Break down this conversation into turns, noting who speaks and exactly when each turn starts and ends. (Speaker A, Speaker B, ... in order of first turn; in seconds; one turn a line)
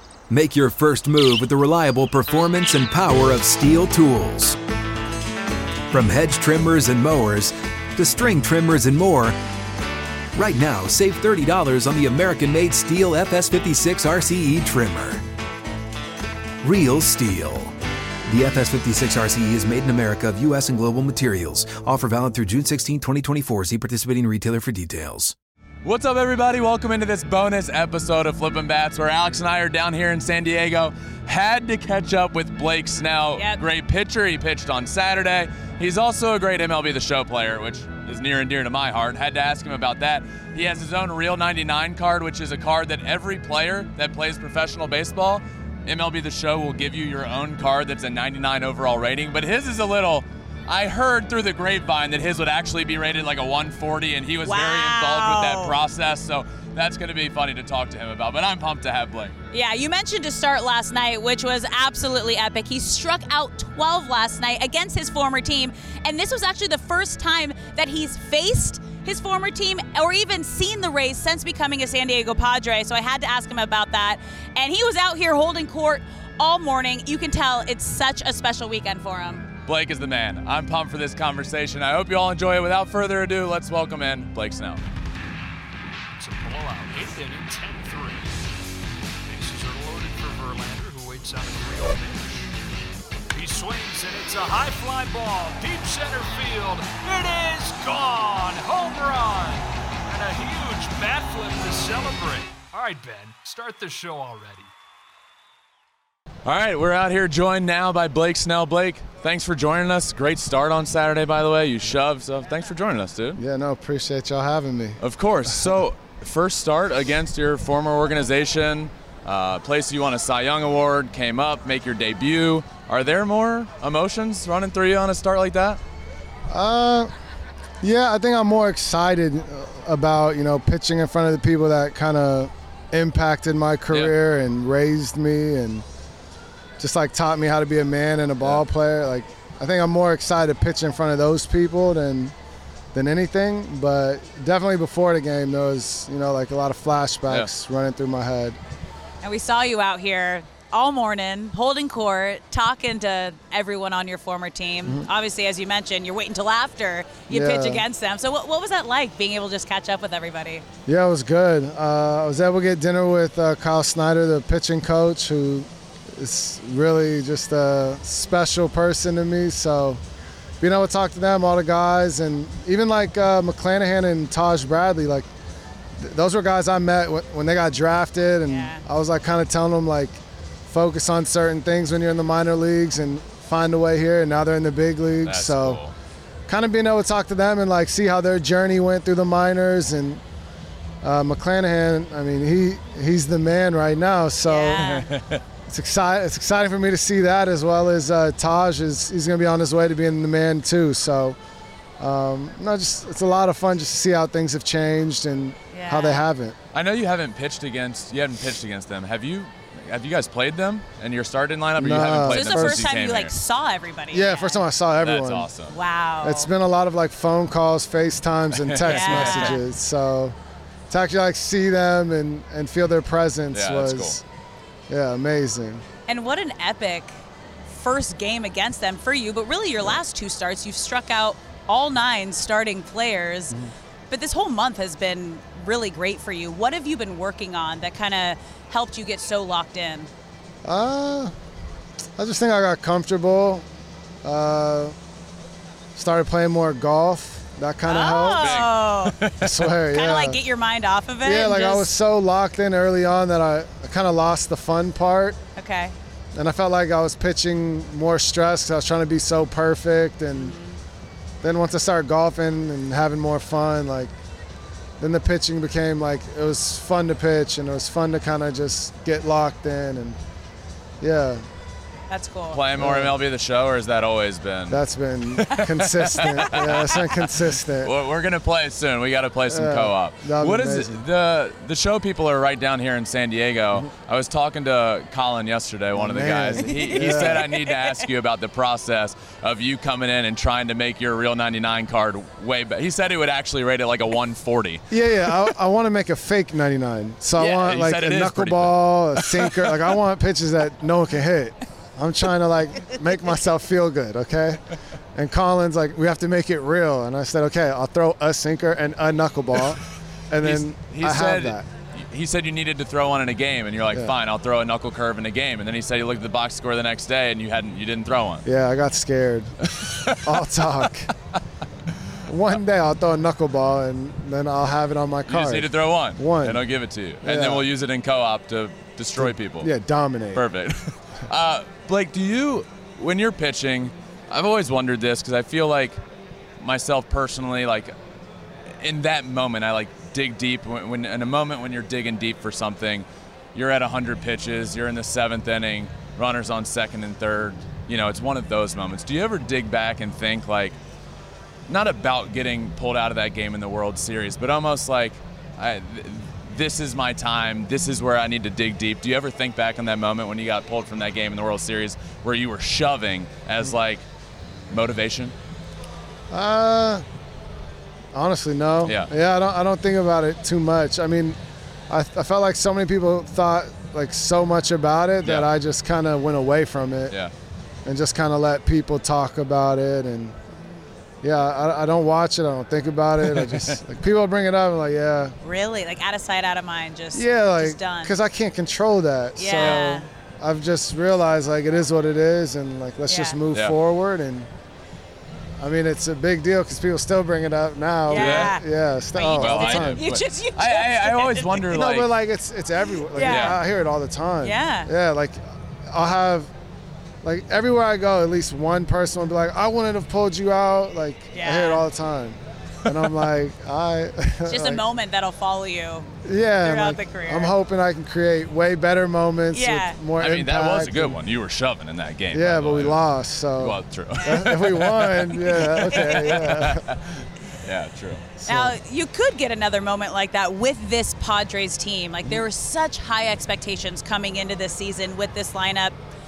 Speaker A: 0.3-4.6
Speaker A: 5.9-9.4
Speaker A: 10.3-15.2
Speaker A: 16.6-25.3
Speaker B: 25.8-59.3
Speaker C: 54.4-55.8
Speaker C: 59.5-79.5
Speaker B: 79.7-84.8
Speaker D: 86.2-88.4
Speaker D: 89.2-92.5
Speaker D: 93.3-104.7
Speaker B: 106.4-113.4
Speaker E: 113.3-115.0
Speaker B: 115.0-125.8
Speaker E: 126.5-127.1
Speaker E: 127.8-135.8
Speaker B: 133.9-134.1
Speaker E: 136.8-142.3
Speaker E: 142.9-148.6
Speaker C: 149.2-160.6
Speaker E: 157.3-157.8
Speaker E: 160.8-170.0
Speaker E: 170.6-175.3
Speaker E: 176.0-185.8
Speaker C: 178.4-178.8
Speaker B: 185.2-185.9
Speaker E: 186.5-190.2
Speaker E: 191.0-194.8
Speaker C: 194.4-195.1
Speaker B: 194.8-195.4
Speaker E: 195.7-201.4
Speaker E: 202.0-206.6
Speaker C: 205.7-206.2
Speaker B: 206.7-213.3
Speaker E: 211.8-212.8
Speaker C: 212.2-214.7
Speaker E: 214.1-215.5
Speaker B: 215.0-215.8
Speaker C: 215.7-216.5
Speaker E: 216.2-220.3
Speaker B: 218.6-219.6
Speaker C: 218.9-219.6
Speaker E: 220.9-224.2
Speaker B: 223.5-224.2
Speaker E: 224.9-225.8
Speaker C: 226.1-227.2
Speaker C: 227.7-233.6
Speaker C: 234.1-240.1
Speaker E: 240.6-241.3
Speaker E: 242.2-243.6
Speaker E: 244.2-244.9
Speaker E: 245.9-248.6
Speaker C: 247.8-249.2
Speaker B: 248.4-249.7
Speaker E: 249.4-250.4
Speaker C: 249.9-251.9
Speaker E: 251.2-255.4
Speaker C: 255.6-255.9
Speaker E: 256.3-260.5
Speaker C: 260.3-260.8
Speaker E: 261.4-264.1
Speaker E: 265.0-270.2
Speaker E: 271.0-271.4
Speaker C: 272.1-272.6
Speaker B: 272.5-274.8
Speaker E: 272.8-273.1
Speaker E: 274.7-277.9
Speaker B: 275.3-294.8
Speaker E: 279.5-281.0
Speaker E: 285.9-287.5
Speaker C: 286.6-288.0
Speaker E: 294.9-304.6
Speaker B: 297.4-299.7
Speaker E: 305.1-311.7
Speaker B: 310.4-318.4
Speaker E: 318.4-319.6
Speaker B: 319.7-320.1
Speaker E: 320.2-321.1
Speaker E: 322.3-326.6
Speaker B: 325.3-329.7
Speaker E: 327.2-327.7
Speaker E: 329.2-330.4
Speaker B: 330.4-336.0
Speaker B: 336.6-337.9
Speaker B: 338.8-350.8
Speaker B: 351.7-364.0
Speaker B: 364.7-365.3
Speaker E: 366.3-367.0
Speaker E: 368.1-371.4
Speaker B: 368.8-369.1
Speaker E: 371.9-377.2
Speaker B: 375.2-375.5
Speaker E: 377.9-380.3
Speaker C: 380.5-380.8
Speaker E: 381.2-385.3
Speaker B: 383.2-383.8
Speaker C: 385.4-388.1
Speaker E: 387.1-394.5
Speaker C: 389.4-390.1
Speaker B: 389.6-389.8
Speaker C: 393.1-393.4
Speaker E: 395.6-400.0
Speaker C: 398.1-401.8
Speaker B: 398.1-398.5
Speaker B: 399.3-402.1
Speaker E: 401.7-406.5
Speaker C: 403.1-403.6
Speaker B: 403.2-403.6
Speaker C: 404.4-404.9
Speaker E: 407.2-414.8
Speaker C: 411.3-411.8
Speaker C: 414.5-416.1
Speaker E: 416.2-421.2
Speaker C: 416.6-417.5
Speaker C: 419.5-420.0
Speaker B: 420.2-423.0
Speaker E: 422.3-426.8
Speaker B: 423.6-428.2
Speaker C: 424.2-424.9
Speaker C: 425.5-426.5
Speaker E: 428.4-428.8
Speaker C: 428.5-435.9